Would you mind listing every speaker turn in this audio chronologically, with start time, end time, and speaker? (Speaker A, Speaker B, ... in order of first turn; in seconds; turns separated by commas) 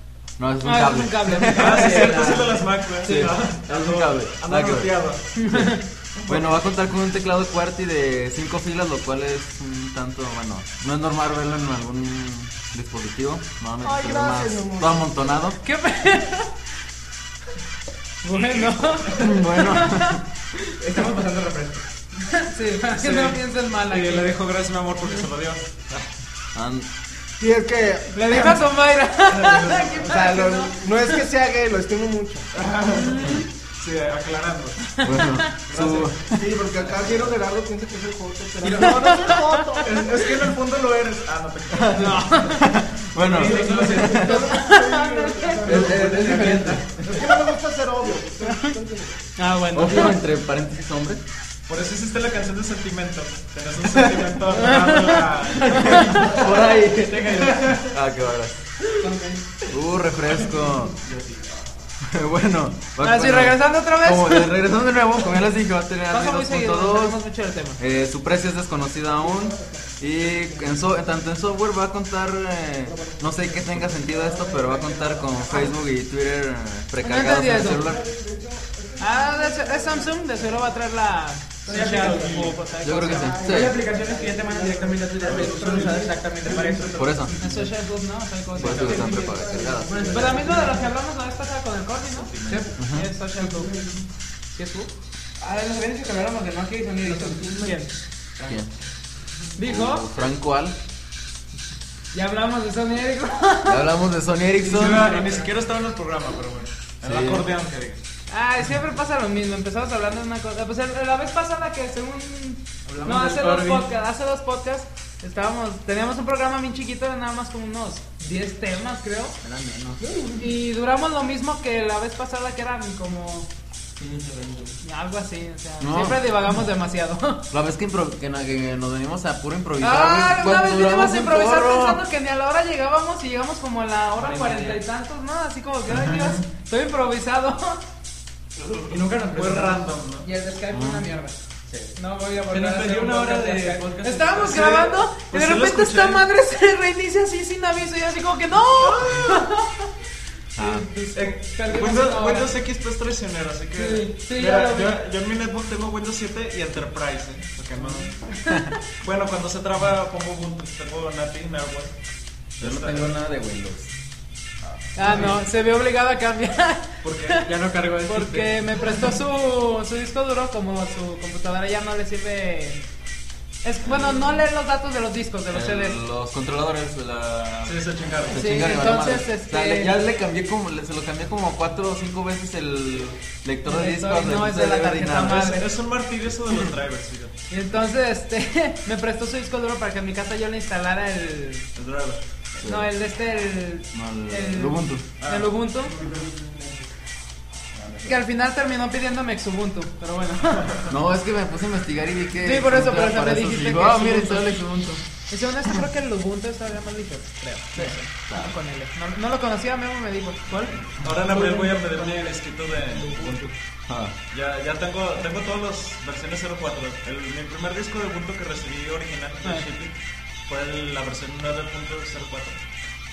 Speaker A: 0.4-4.9, Speaker B: 0.6-2.5, Speaker C: 1.5-5.3, Speaker D: 2.0-2.5, Speaker B: 5.3-5.8, Speaker A: 5.5-15.6, Speaker C: 6.3-6.6, Speaker E: 13.8-15.1, Speaker B: 15.6-16.6, Speaker B: 18.2-20.2, Speaker C: 18.4-19.2, Speaker A: 19.2-20.2, Speaker D: 20.8-21.9, Speaker B: 22.2-24.3, Speaker C: 22.9-26.1, Speaker A: 26.6-26.9, Speaker E: 27.4-28.7, Speaker B: 28.1-31.2, Speaker C: 29.3-30.1, Speaker E: 30.0-32.5, Speaker C: 32.5-37.3, Speaker B: 33.0-33.5, Speaker A: 33.2-33.4, Speaker B: 35.0-35.5, Speaker A: 35.0-36.6, Speaker E: 36.3-40.2, Speaker C: 38.6-39.0, Speaker B: 38.7-39.7, Speaker C: 39.8-42.5, Speaker A: 41.7-44.4, Speaker B: 41.9-42.7, Speaker C: 43.2-44.2, Speaker E: 43.3-49.3, Speaker D: 43.3-44.4, Speaker B: 43.7-45.9, Speaker A: 45.6-47.2, Speaker D: 45.9-46.8, Speaker C: 46.2-46.6, Speaker B: 48.5-48.7, Speaker B: 49.4-50.2, Speaker A: 49.7-51.2, Speaker C: 51.7-56.3, Speaker A: 54.0-54.3, Speaker B: 54.5-56.4, Speaker A: 55.9-58.6, Speaker D: 56.2-58.0, Speaker D: 58.8-59.4, Speaker A: 59.7-61.0, Speaker D: 61.1-61.5, Speaker A: 62.0-67.2, Speaker B: 63.0-64.7, Speaker B: 66.1-67.8, Speaker A: 67.8-78.0, Speaker E: 69.0-71.0, Speaker E: 72.8-75.8, Speaker B: 77.0-78.0, Speaker E: 77.6-80.8, Speaker B: 79.0-83.2, Speaker D: 81.7-87.3, Speaker E: 81.7-87.5, Speaker C: 82.1-82.5, Speaker A: 82.8-83.8, Speaker C: 85.2-86.9, Speaker A: 87.0-87.3, Speaker B: 87.4-89.1, Speaker A: 88.6-90.1, Speaker D: 88.6-90.9, Speaker E: 88.6-90.8, Speaker B: 90.1-93.7, Speaker C: 92.0-92.7, Speaker A: 92.8-93.1, Speaker E: 93.4-94.0, Speaker B: 94.5-94.9, Speaker D: 95.4-97.8, Speaker B: 97.0-98.0, Speaker E: 97.3-97.7, Speaker B: 99.6-100.1, Speaker A: 99.6-100.8, Speaker B: 102.1-103.9, Speaker A: 103.7-105.2, Speaker C: 104.6-108.0, Speaker D: 104.9-105.5, Speaker A: 107.0-107.5, Speaker B: 108.3-119.4, Speaker D: 112.8-113.8, Speaker D: 119.4-120.3, Speaker B: 120.2-123.5, Speaker D: 124.0-124.8, Speaker B: 124.8-127.5, Speaker A: 125.8-126.3, Speaker A: 127.5-132.0, Speaker B: 129.8-137.8, Speaker D: 134.2-134.8, Speaker C: 135.9-136.4, Speaker D: 138.7-139.8, Speaker C: 138.9-140.3, Speaker B: 140.2-141.4, Speaker A: 140.7-141.1, Speaker B: 141.9-149.9, Speaker D: 142.5-144.6, Speaker C: 144.4-146.2, Speaker C: 148.8-149.5, Speaker B: 150.6-152.6, Speaker A: 150.6-150.8, Speaker C: 151.1-158.2, Speaker B: 153.8-155.0, Speaker B: 157.8-158.8, Speaker C: 158.9-161.9, Speaker C: 162.6-163.1, Speaker A: 162.6-163.9, Speaker B: 164.9-167.5, Speaker C: 165.0-165.4, Speaker C: 167.0-167.5, Speaker D: 167.4-168.9, Speaker B: 168.0-172.8, Speaker B: 173.6-176.0, Speaker A: 173.8-174.5, Speaker A: 175.5-185.5, Speaker C: 177.7-178.7, Speaker B: 178.3-179.9, Speaker B: 183.7-185.7, Speaker C: 185.3-187.3, Speaker B: 187.5-191.7, Speaker C: 191.8-192.2, Speaker B: 192.6-196.0, Speaker A: 192.6-192.9, Speaker A: 193.9-195.1, Speaker C: 195.2-196.3, Speaker A: 197.7-198.2, Speaker B: 198.0-200.7, Speaker A: 200.9-205.0, Speaker B: 202.4-204.6, Speaker B: 205.3-210.8, Speaker A: 207.8-208.6, Speaker C: 211.0-213.5, Speaker D: 211.4-212.3, Speaker D: 213.0-213.4, Speaker A: 213.9-214.2, Speaker C: 214.3-219.9, Speaker C: 220.5-222.6